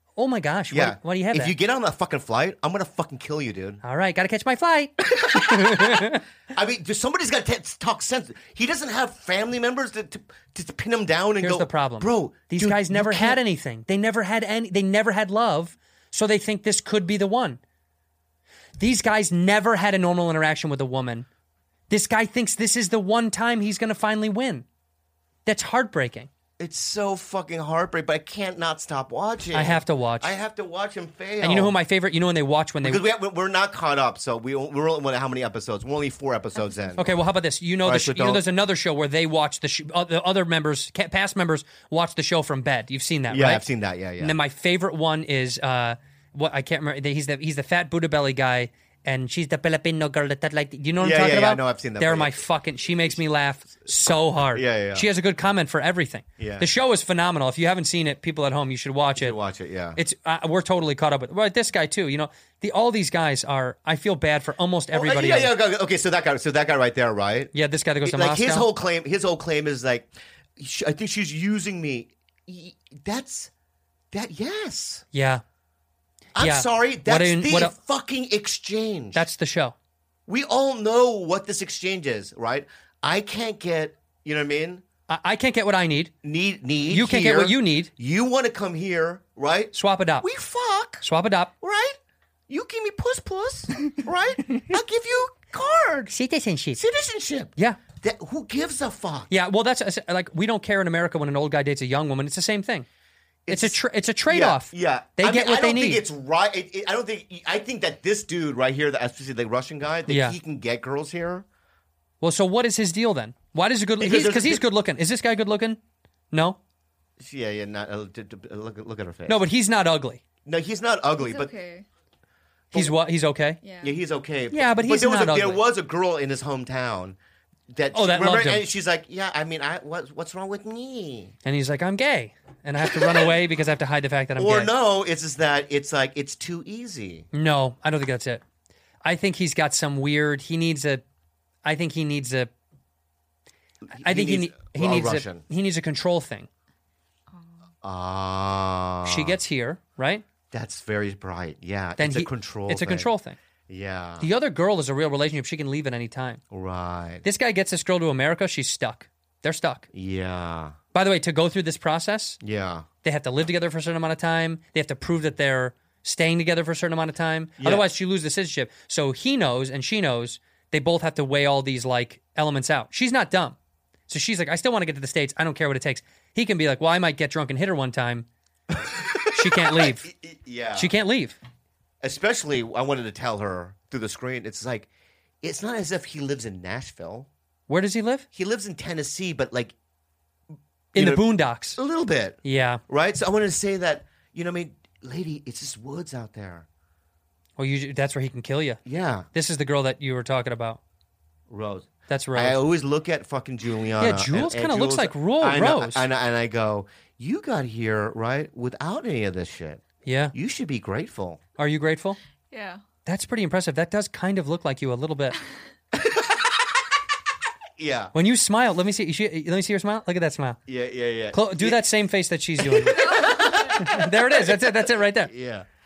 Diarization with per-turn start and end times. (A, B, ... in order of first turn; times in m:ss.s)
0:00.2-0:01.6 A
0:00.7-0:03.8 B
0:03.8-0:06.2 A
0:05.0-0:13.4 B
0:11.4-0:17.6 A
0:18.8-0:21.3 A
0:21.9-0:24.7 A
0:25.5-0:26.3 A
0:26.6-0:31.8 B
0:29.5-0:30.3 A
0:31.4-0:33.0 A
0:32.8-0:37.2 B
0:37.0-0:43.7 A
0:37.8-0:38.4 B
0:43.3-0:44.4 B
0:44.2-0:59.4 A
0:51.0-0:53.2 B
0:53.8-0:55.1 B
0:56.4-0:56.7 B
0:59.2-1:00.0 B
1:00.0-1:05.5 A
1:04.9-1:13.5 B
1:07.5-1:08.7 A
1:14.1-1:15.0 B
1:15.1-1:15.4 A
1:16.4-1:19.3 B
1:16.4-1:17.8 A
1:19.1-1:19.8 A
1:20.3-1:24.8 B
1:25.1-1:26.1 A
1:26.2-1:31.1 B
1:26.9-1:27.9 A
1:29.7-1:30.3 A
1:31.0-1:31.5 A
1:31.6-1:32.0 B
1:32.5-1:36.1 B
1:36.1-1:36.8 A
1:36.8-1:39.3 B
1:39.3-1:42.9 A
1:43.5-1:51.5 B
1:43.5-1:46.0 A
1:50.1-1:50.4 A
1:52.2-1:55.8 A
1:54.0-1:54.6 B
1:56.3-1:56.6 A
1:57.2-1:59.4 B
1:59.3-2:00.2 A
2:00.4-2:01.5 B
2:01.2-2:01.9 C
2:02.7-2:03.6 A
2:03.6-2:04.0 C
2:03.8-2:07.2 B
2:04.5-2:05.6 A
2:07.7-2:11.4 B
2:07.9-2:08.6 A
2:11.4-2:14.7 A
2:12.8-2:13.4 B
2:14.4-2:17.3 B
2:17.3-2:18.4 A
2:19.0-2:21.0 A
2:21.6-2:22.5 A
2:23.9-2:25.4 B
2:24.0-2:26.5 A
2:27.8-2:29.4 B
2:29.0-2:30.2 A
2:30.5-2:33.1 B
2:32.0-2:33.4 A
2:33.7-2:34.3 B
2:34.2-2:36.4 A
2:36.5-2:37.2 B
2:37.2-2:39.9 A
2:39.9-2:40.8 B
2:40.9-2:42.4 A
2:42.4-2:42.9 B
2:43.0-2:53.6 A
2:47.6-2:47.9 B
2:54.1-2:58.3 A
2:58.7-3:01.0 B
2:59.3-3:00.1 A
3:00.8-3:01.4 A
3:02.0-3:04.9 B
3:05.4-3:07.3 B
3:07.7-3:08.3 A
3:08.3-3:09.8 B
3:10.9-3:11.8 A
3:11.0-3:16.7 B
3:12.4-3:12.8 A
3:17.6-3:18.8 A
3:18.8-3:19.3 B
3:19.3-3:20.8 A
3:21.5-3:31.4 B
3:22.1-3:22.6 A
3:24.0-3:26.1 A
3:30.0-3:30.3 A
3:31.6-3:32.2 A
3:32.5-3:32.8 C
3:33.1-3:35.4 A
3:35.9-3:36.9 B
3:37.8-3:38.1 B
3:38.1-3:40.6 A
3:40.7-3:41.8 B
3:41.3-3:45.3 A
3:42.6-3:45.7 B
3:43.0-3:43.7 C